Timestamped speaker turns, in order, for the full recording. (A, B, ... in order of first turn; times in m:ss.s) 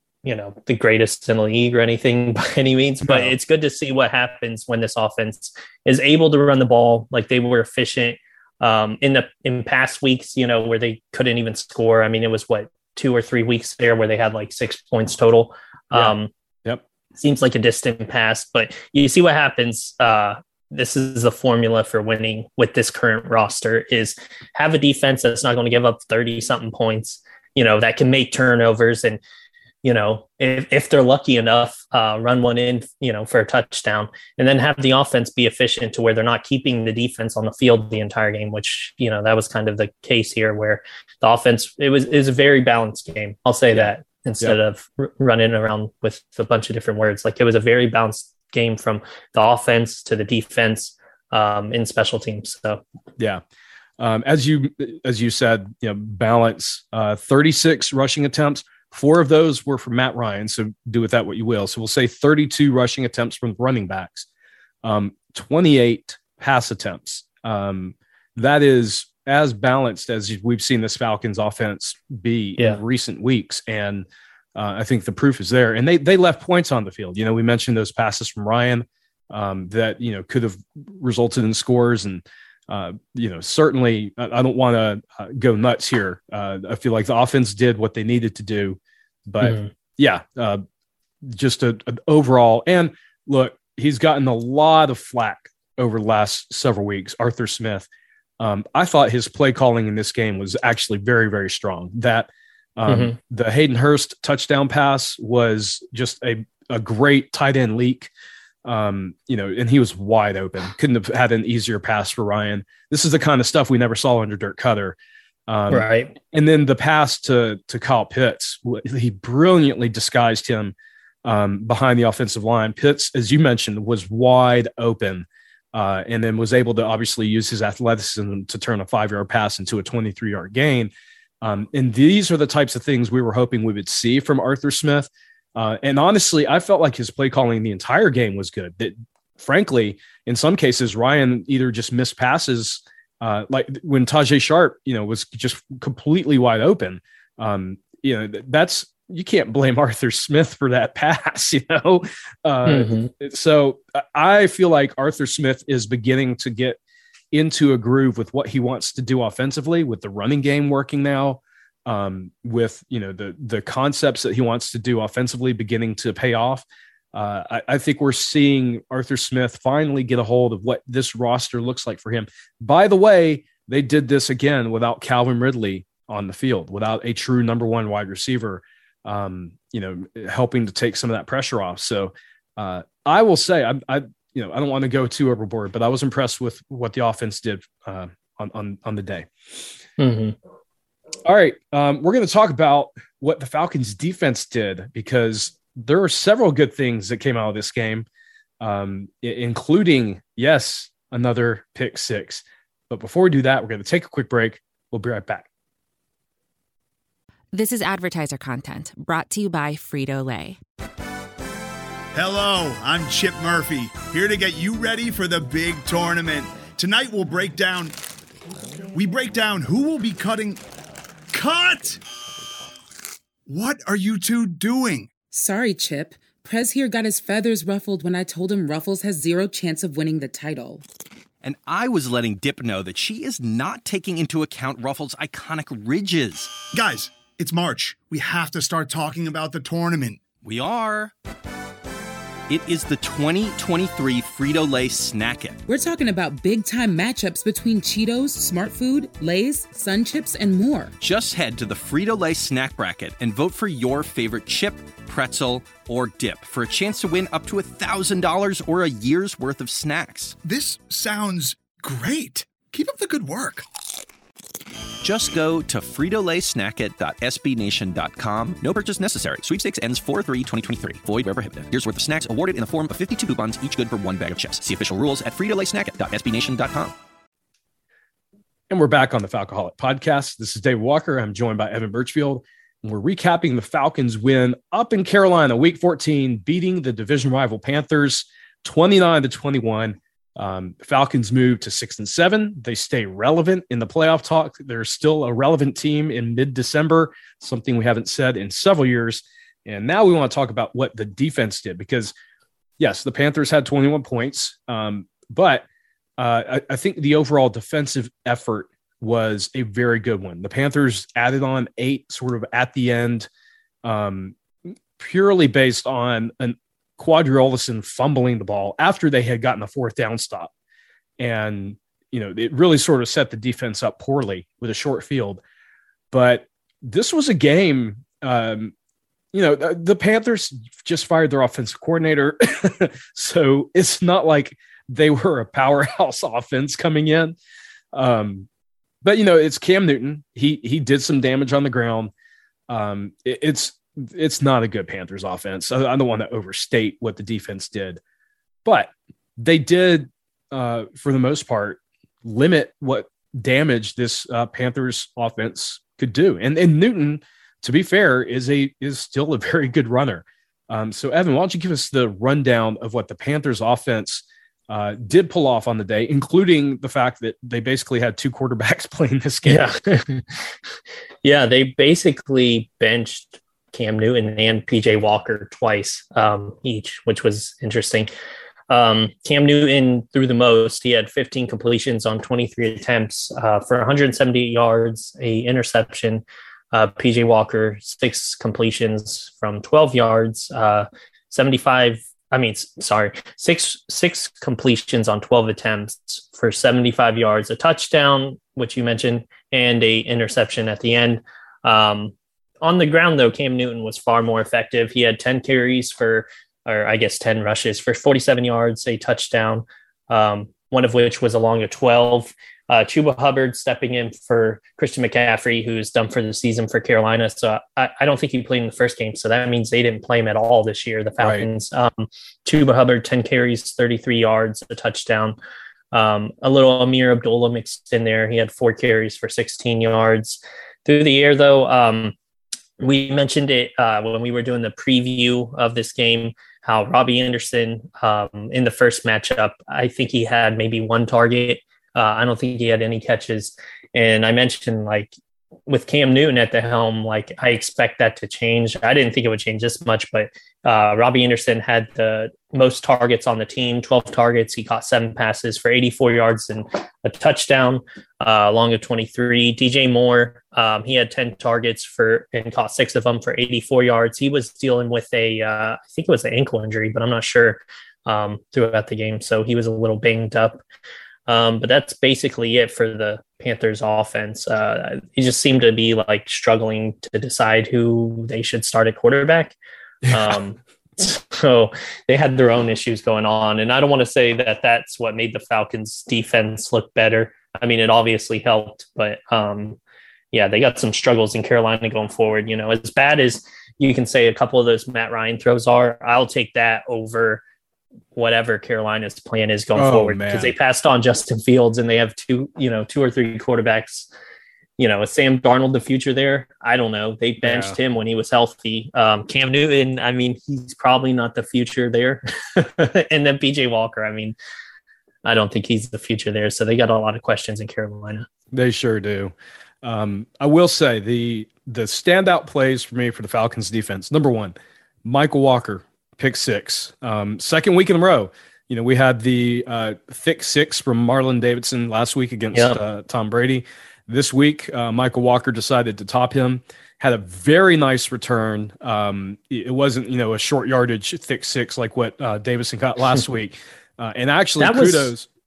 0:00.2-0:16.3 A
0:03.0-0:03.4 B
0:15.9-0:16.8 B
0:17.2-0:29.2 A
0:29.8-0:52.8 A
0:54.0-1:04.3 B
1:04.8-1:30.6 B
1:29.4-1:29.7 A
1:31.2-1:37.9 B
1:38.4-1:48.1 B
1:42.9-1:43.2 A
1:48.6-1:55.0 B
1:55.5-2:36.8 B
1:55.7-1:56.2 A
2:32.7-2:33.1 A
2:37.3-3:09.3 B
3:10.0-3:10.4 A
3:11.2-3:18.1 B
3:18.6-3:25.5 B
3:27.5-3:30.6 C
3:32.1-3:38.0 D
3:38.9-3:40.6 D
3:41.3-3:42.0 D
3:43.5-3:45.1 D
3:45.3-3:50.8 E
3:51.4-3:56.6 F
3:56.6-4:00.2 D
4:00.4-4:01.1 F
4:02.5-4:05.6 F
4:05.7-4:10.9 E
4:11.0-4:20.4 F
4:20.4-4:23.6 D
4:25.0-4:37.0 F
4:38.7-5:02.1 B
5:02.8-5:05.6 B
5:06.2-5:13.3 B
5:13.8-5:20.5 B
5:21.2-5:25.4 B
5:26.1-5:28.7 B
5:29.3-5:37.4 B
5:37.9-5:38.5 B
5:39.0-5:42.1 B
5:42.7-5:48.0 B
5:48.6-6:09.7 B
6:09.4-6:10.2 A
6:11.2-6:18.1 A
6:18.7-7:05.4 A
7:01.2-7:01.5 B
7:05.9-7:12.2 A
7:12.8-7:25.1 A
7:25.7-7:50.6 A
7:51.3-7:59.6 A
8:00.1-8:09.8 A
8:10.3-8:17.4 A
8:18.1-8:24.1 A
8:19.8-8:20.5 B
8:24.8-8:34.4 A
8:27.4-8:27.8 B
8:35.2-8:38.3 A
8:38.5-9:05.3 B
8:52.5-8:52.8 A
9:04.6-9:05.1 A